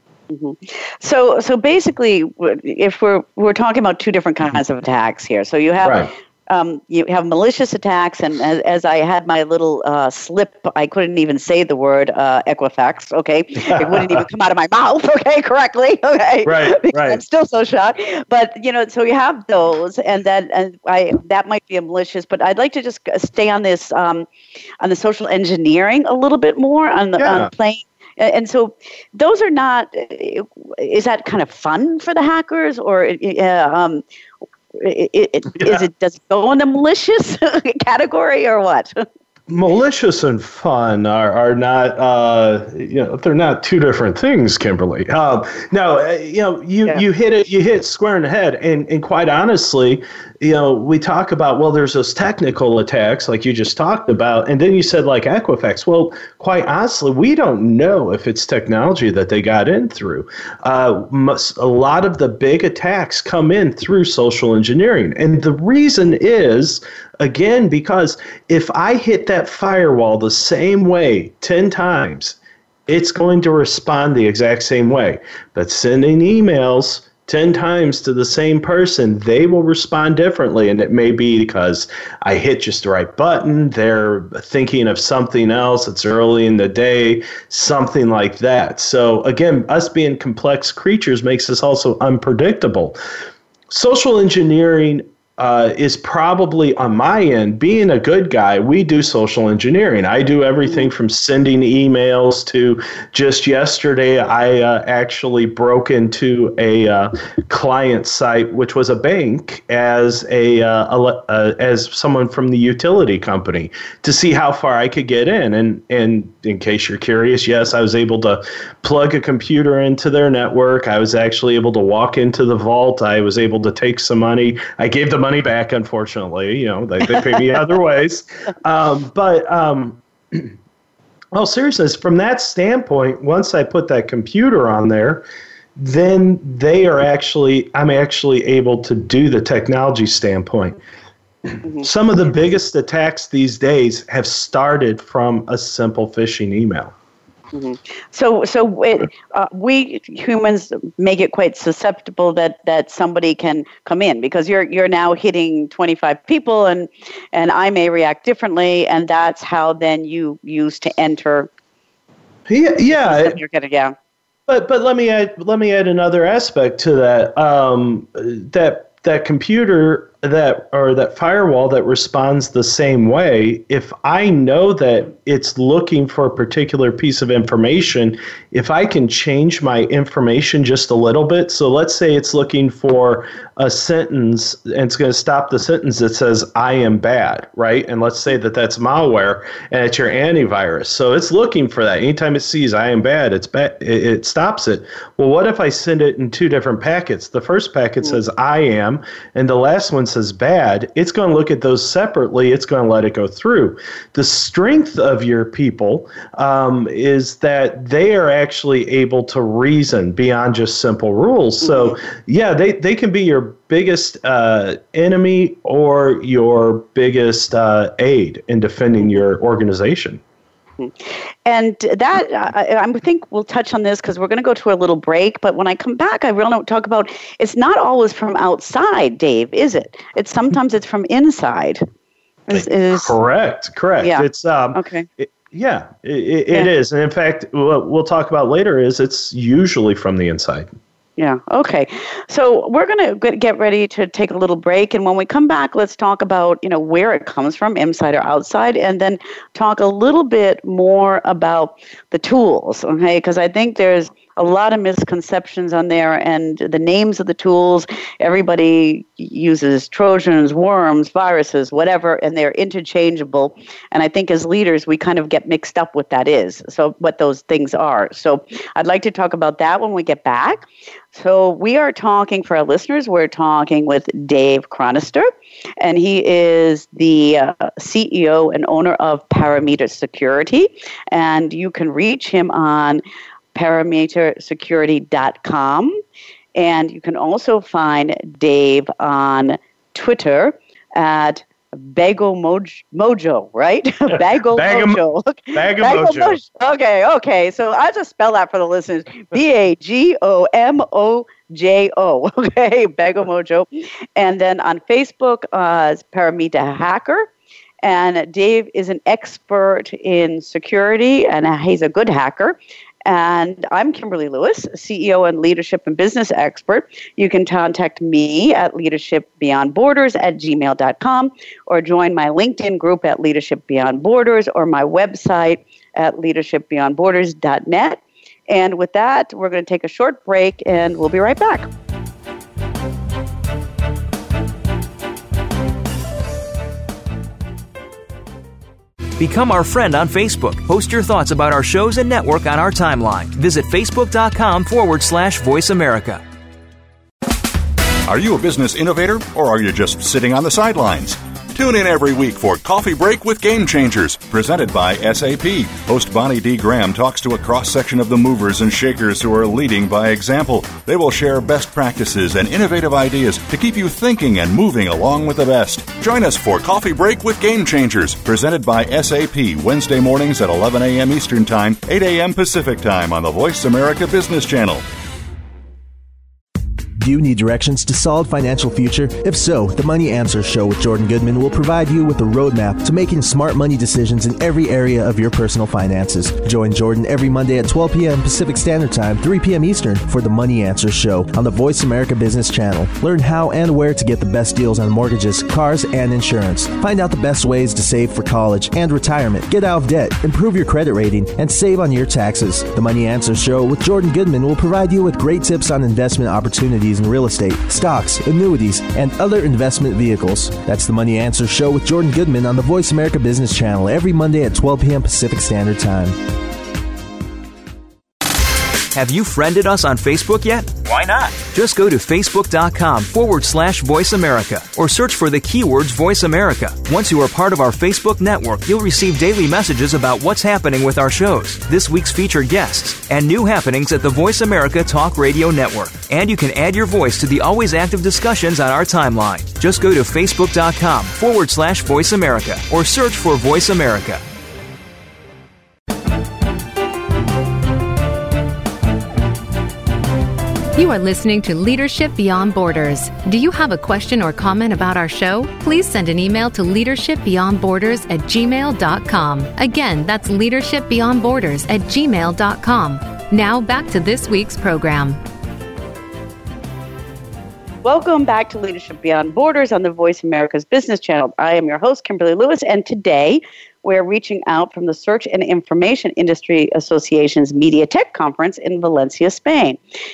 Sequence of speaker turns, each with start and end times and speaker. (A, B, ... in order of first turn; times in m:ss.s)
0:00.3-0:24.3 A
0:05.8-0:06.1 B
0:13.6-0:14.2 B
0:16.4-0:17.2 B
0:24.8-0:34.0 A
0:27.2-0:27.5 B
0:34.8-0:38.9 A
0:39.5-1:33.0 B
1:33.7-2:10.5 B
2:11.3-2:15.2 B
2:15.8-2:20.8 B
2:21.8-2:26.9 B
2:27.5-2:41.5 A
2:42.5-2:43.4 B
2:42.9-2:43.9 A
2:44.5-3:40.2 B
3:31.6-3:31.9 A
3:41.4-3:51.8 A
3:52.5-3:53.1 A
3:52.5-4:00.7 B
3:54.0-3:55.1 A
4:01.2-4:35.3 A
4:35.8-4:43.0 A
4:43.5-4:46.0 A
4:46.5-5:07.3 A
4:54.5-4:55.0 B
4:55.5-4:56.4 B
5:07.8-5:31.7 A
5:39.2-5:46.2 C
5:48.1-6:14.8 D
6:17.0-6:56.2 E
6:58.9-7:24.2 C
7:30.7-7:45.2 F
7:47.8-7:59.8 A